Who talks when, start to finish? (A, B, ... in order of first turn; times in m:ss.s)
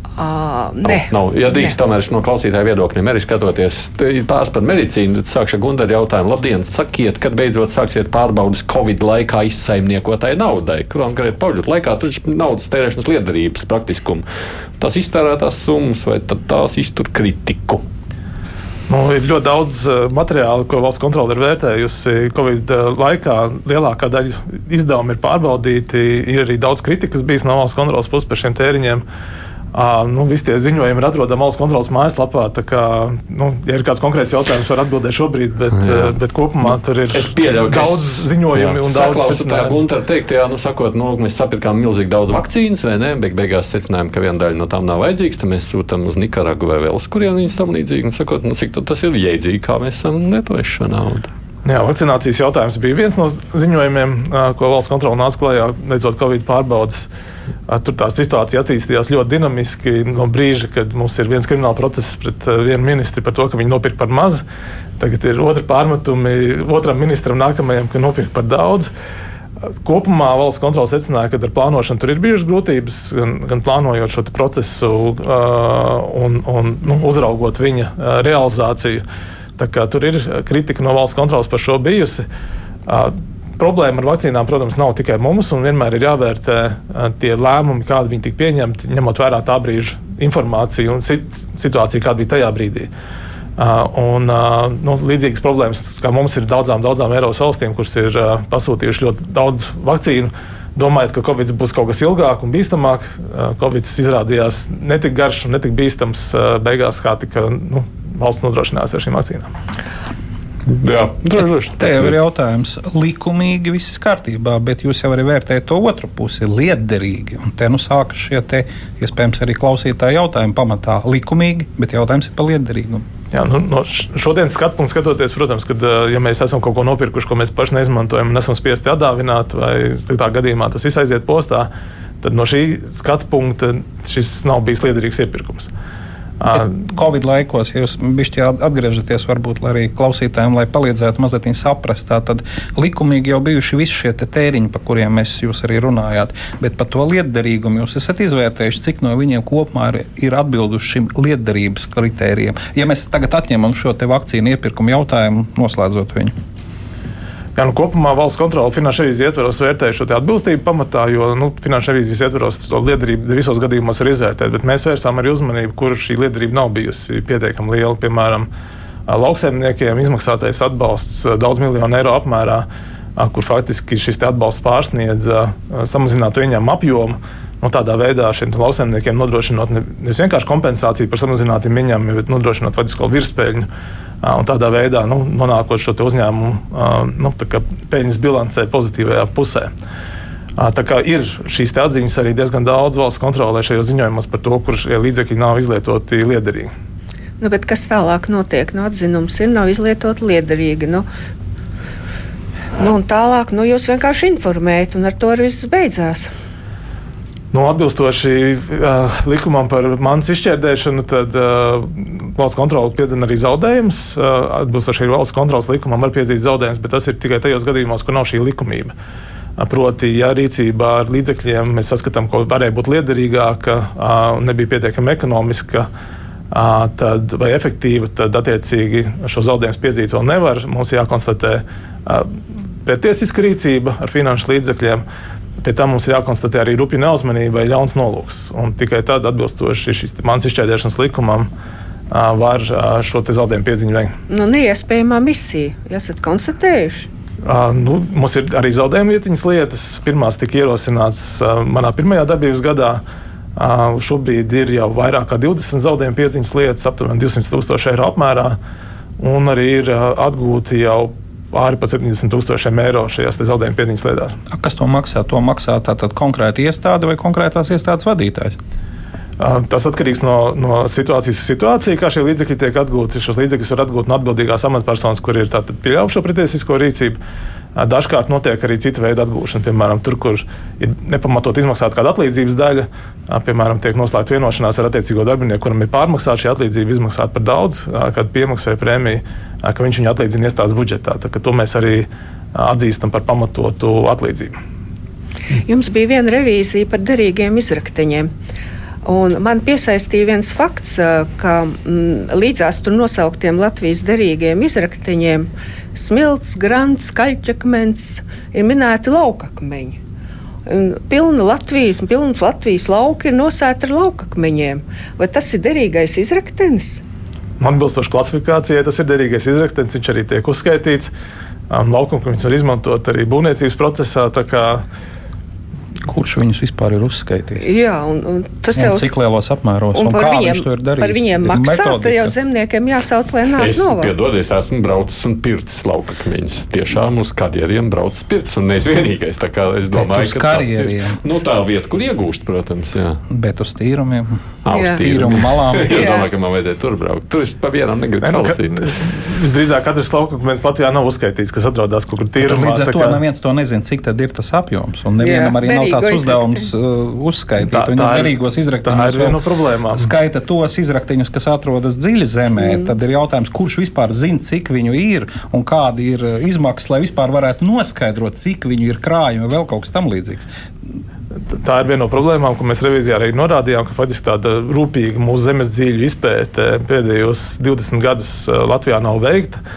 0:00.2-0:01.7 A
0:00.8-0:14.2 B
0:14.8-0:17.8 B
0:18.9-0:29.0 C
0:29.7-0:39.8 C
0:35.8-0:36.1 B
0:37.1-0:51.3 B
0:51.7-0:57.1 C
0:57.7-1:04.4 C
1:05.0-1:08.9 C
1:09.8-1:19.0 C
1:19.6-1:22.2 C
1:22.9-1:32.9 C
1:33.6-1:49.5 C
1:50.7-1:52.1 B
1:51.8-2:03.0 D
2:03.3-2:11.7 C
2:12.2-2:15.7 C
2:16.5-2:36.3 D
2:37.6-2:48.5 C
2:49.1-2:52.7 C
2:53.2-3:03.7 C
3:04.2-3:09.7 C
3:10.6-3:16.7 C
3:17.4-3:21.1 A
3:22.8-3:26.3 A
3:27.5-3:38.9 C
3:39.6-3:45.9 C
3:46.5-3:55.0 C
3:55.6-4:01.5 C
4:02.1-4:04.1 C
4:04.3-4:07.1 A
4:07.4-4:13.0 C
4:13.6-4:18.6 C
4:19.2-4:24.4 C
4:24.5-4:28.6 D
4:29.4-4:37.2 C
4:37.8-4:54.6 C
4:55.7-4:58.3 A
4:59.0-5:10.0 A
5:10.7-5:17.0 A
5:17.6-5:21.1 C
5:21.7-5:24.8 C
5:26.1-5:27.6 D
5:27.6-5:29.1 A
5:28.8-5:32.3 D
5:29.9-5:34.1 A
5:33.5-5:43.2 B
5:39.9-5:41.2 D
5:43.3-5:46.1 D
5:44.6-5:49.0 B
5:44.7-5:45.0 A
5:45.9-5:46.3 A
5:48.2-5:53.2 C
5:52.4-5:59.4 D
5:55.2-5:56.7 A
5:57.6-6:00.1 C
5:59.9-6:10.5 D
6:02.6-6:02.9 A
6:11.5-6:19.6 C